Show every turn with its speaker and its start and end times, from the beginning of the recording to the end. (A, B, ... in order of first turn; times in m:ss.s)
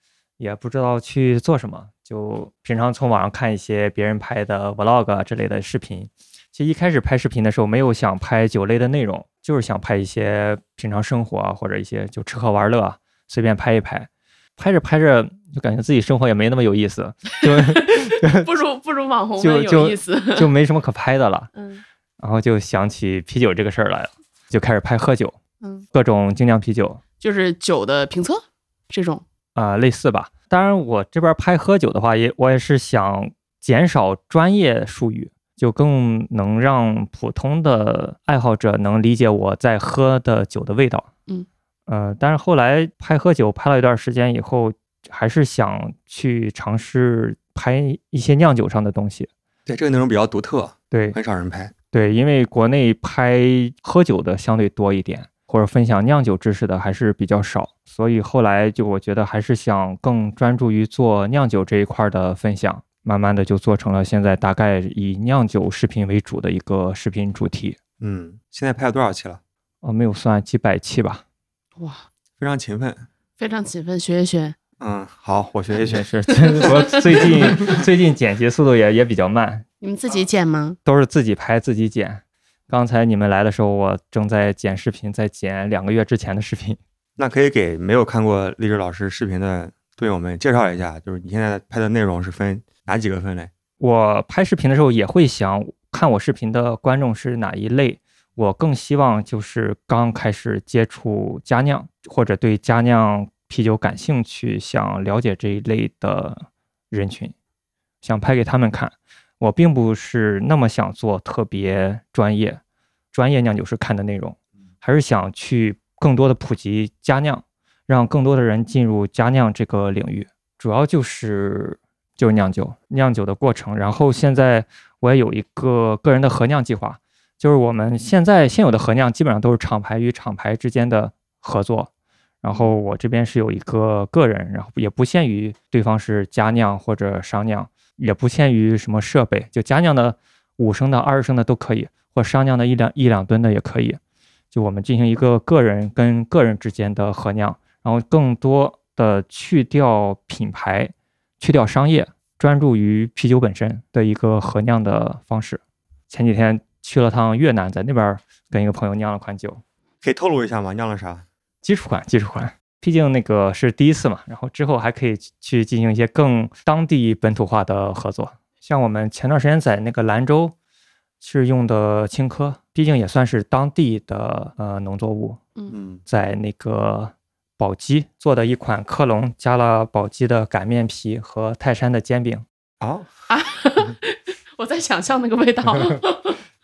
0:00.4-0:18.5 A
0:17.6-0:20.5 B
0:19.4-0:21.5 A
0:21.5-0:21.8 B
0:22.2-0:25.4 A
0:25.6-0:25.9 B
0:25.9-0:27.0 A
0:27.2-0:29.2 B
0:29.6-0:41.1 A
0:41.9-0:49.3 A
0:49.6-0:51.7 C
0:50.9-0:51.2 A
0:51.9-1:07.8 A
1:08.0-1:09.4 C
1:09.8-1:11.2 A
1:11.8-1:12.0 B
1:12.4-1:13.1 C
1:13.4-1:14.6 B
1:14.8-1:16.0 C
1:15.8-1:19.6 A
1:16.6-1:17.3 B
1:19.8-1:20.8 B
1:20.8-1:26.8 A
1:27.2-1:33.5 C
1:33.8-1:47.3 A
1:48.0-1:52.6 A
1:53.1-2:11.9 A
2:12.4-2:24.0 A
2:24.5-2:39.6 A
2:40.0-2:41.3 C
2:41.6-2:50.5 A
2:51.2-2:55.4 A
2:55.7-2:56.0 C
2:56.1-3:02.4 A
3:02.8-3:03.1 C
3:03.3-3:06.4 B